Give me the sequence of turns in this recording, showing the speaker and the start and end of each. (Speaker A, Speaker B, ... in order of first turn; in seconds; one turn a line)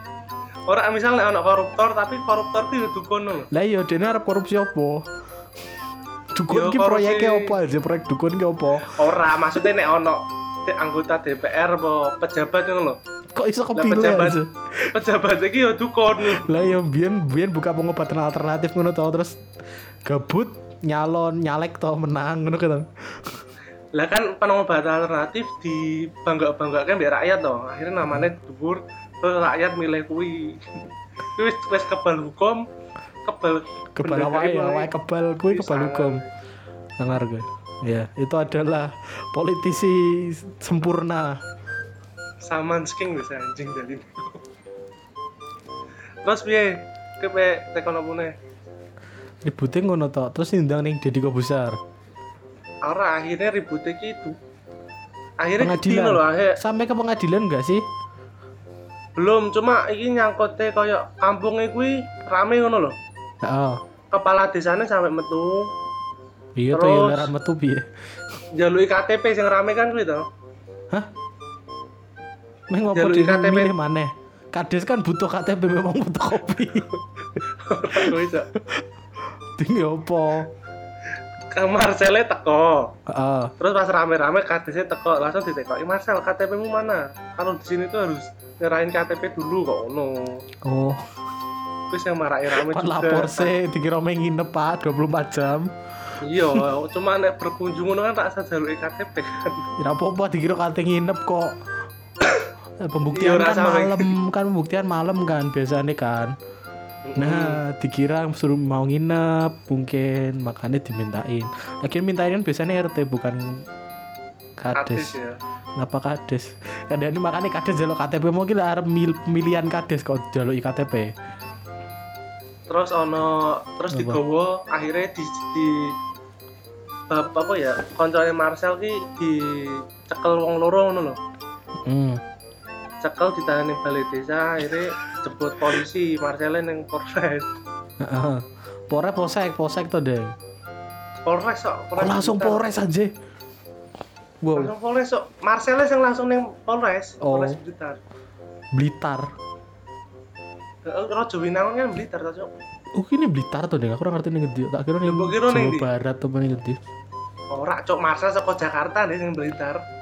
Speaker A: 0.7-3.5
Speaker B: 3.5-5.1
Speaker B: 6.3-9.0
Speaker A: 6.5-7.6
Speaker A: 8.9-13.0
Speaker B: 13.3-14.9
Speaker A: 13.7-14.4
Speaker A: 14.9-16.7
Speaker B: 16.2-19.4
Speaker B: 20.0-23.4
Speaker A: 23.9-30.8
Speaker A: 31.4-32.7
Speaker A: 33.2-34.9
Speaker B: 34.0-36.2
Speaker A: 35.5-36.3
Speaker B: 37.0-41.4
Speaker A: 42.4-44.4
Speaker A: 46.2-48.3
Speaker B: 49.4-51.8
Speaker A: 52.8-54.4
Speaker A: 55.4-56.6
Speaker B: 55.6-57.8
Speaker A: 59.2-63.0
Speaker B: 63.4-63.8
Speaker A: 64.1-65.7
Speaker B: 66.5-67.9
Speaker A: 66.7-67.3
Speaker A: 68.5-70.2
Speaker B: 72.7-76.9
Speaker A: 72.9-73.7
Speaker A: 77.4-78.5
Speaker B: 77.9-78.8
Speaker B: 79.6-80.5
Speaker A: 81.5-82.9
Speaker B: 83.1-83.5
Speaker A: 83.6-90.4
Speaker B: 90.6-91.1
Speaker A: 91.9-93.5
Speaker B: 92.5-95.7
Speaker A: 96.2-99.7
Speaker B: 96.3-96.6
Speaker B: 99.8-101.5
Speaker B: 102.8-106.3
Speaker A: 103.1-104.1
Speaker A: 107.0-107.6
Speaker B: 107.2-113.6
Speaker B: 114.6-115.1
Speaker A: 114.7-115.4
Speaker B: 115.8-121.1
Speaker A: 122.7-125.9
Speaker B: 123.9-124.2
Speaker A: 127.1-131.2
Speaker B: 131.8-132.2
Speaker A: 133.0-137.5
Speaker B: 138.0-140.3
Speaker A: 141.2-142.8
Speaker B: 141.9-143.1
Speaker B: 144.4-144.7
Speaker A: 144.5-148.0
Speaker B: 147.2-147.6
Speaker B: 148.7-149.3
Speaker A: 150.8-152.5
Speaker B: 152.9-156.8
Speaker A: 155.0-155.9
Speaker A: 157.5-159.8